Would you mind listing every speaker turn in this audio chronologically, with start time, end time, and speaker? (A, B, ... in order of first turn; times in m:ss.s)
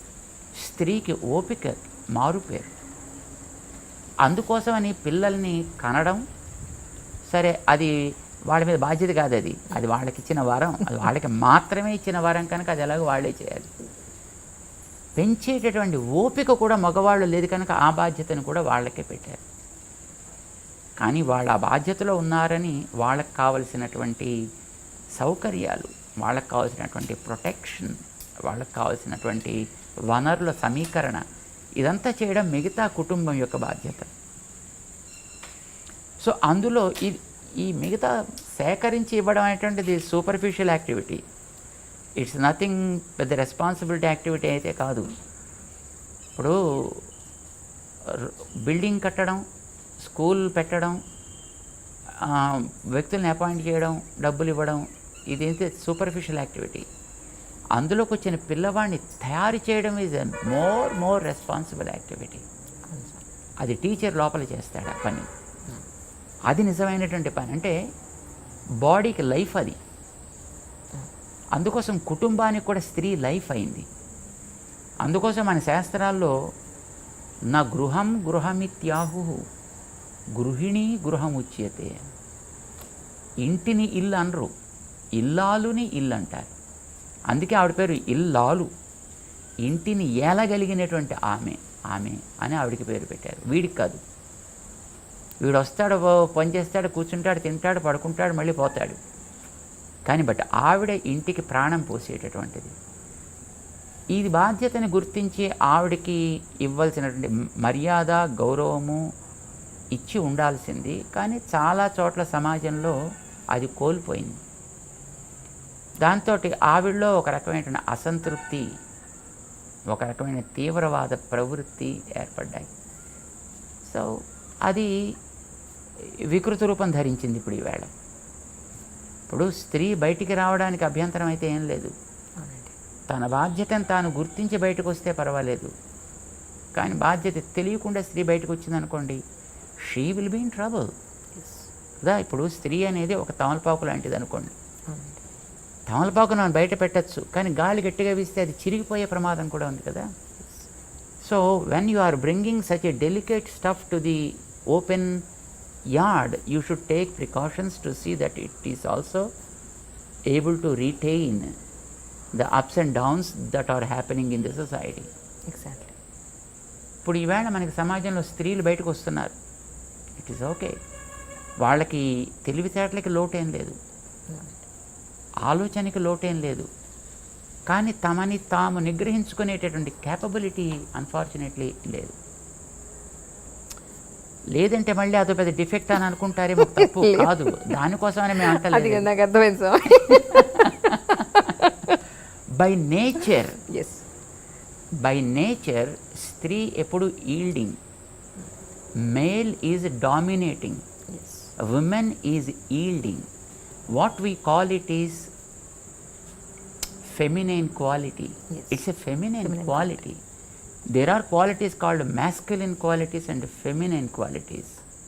0:00.6-0:02.7 A
0:04.2-0:06.2 A
0:07.3-0:07.9 A
0:08.5-0:13.7 A
0:15.2-0:19.4 A
0:21.0-0:24.3 A
0:25.2-0:31.2 A
0:31.8-0:34.1 A
0:36.2-0:41.2 A
0:42.2-0:45.1 A
0:46.4-0:47.1 A
0:48.0-0:49.4 A
0:50.0-0:51.0 A
0:52.2-0:56.9 A
0:57.8-1:02.4 A
1:02.9-1:03.2 B
1:03.6-1:05.3 A
1:06.5-1:07.7 A
1:08.8-1:09.8 A
1:11.6-1:13.9 A
1:15.0-1:16.3 A
1:17.5-1:19.4 A
1:20.4-1:22.0 A
1:23.4-1:24.5 A
1:25.2-1:26.5 A
1:27.3-1:28.7 A
1:29.6-1:34.0 A
1:35.4-1:39.0 A
1:40.0-1:42.7 A
1:44.1-1:49.0 A
1:49.9-1:53.0 A
1:53.5-1:54.4 A
1:56.0-1:58.6 A
1:59.9-2:02.7 A
2:03.8-2:04.1 A
2:04.7-2:04.9 A
2:06.0-2:07.9 A
2:09.3-2:11.9 A
2:12.4-2:12.7 B
2:13.1-2:15.7 A
2:16.8-2:19.2 A
2:19.8-2:20.9 A
2:21.3-2:21.7 B
2:22.0-2:24.6 A
2:24.9-2:25.2 B
2:25.9-2:30.1 A
2:30.4-2:30.7 B
2:31.2-2:35.2 A
2:36.0-2:39.3 A
2:40.3-2:41.5 A
2:42.3-2:45.1 A
2:45.5-2:45.9 B
2:47.0-2:49.3 A
2:50.2-2:50.7 A
2:51.6-2:53.8 A
2:54.3-2:54.6 B
2:55.4-2:56.7 A
2:57.7-3:02.2 A
3:04.5-3:09.1 A
3:06.6-3:07.8 B
3:08.4-3:12.0 B
3:10.1-3:11.5 A
3:12.6-3:13.6 A
3:13.7-3:14.1 B
3:15.0-3:17.8 A
3:19.0-3:20.8 A
3:21.1-3:21.5 B
3:21.6-3:23.3 A
3:23.9-3:25.3 A
3:27.1-3:30.2 A
3:28.5-3:28.8 B
3:29.4-3:30.0 B
3:30.9-3:34.8 A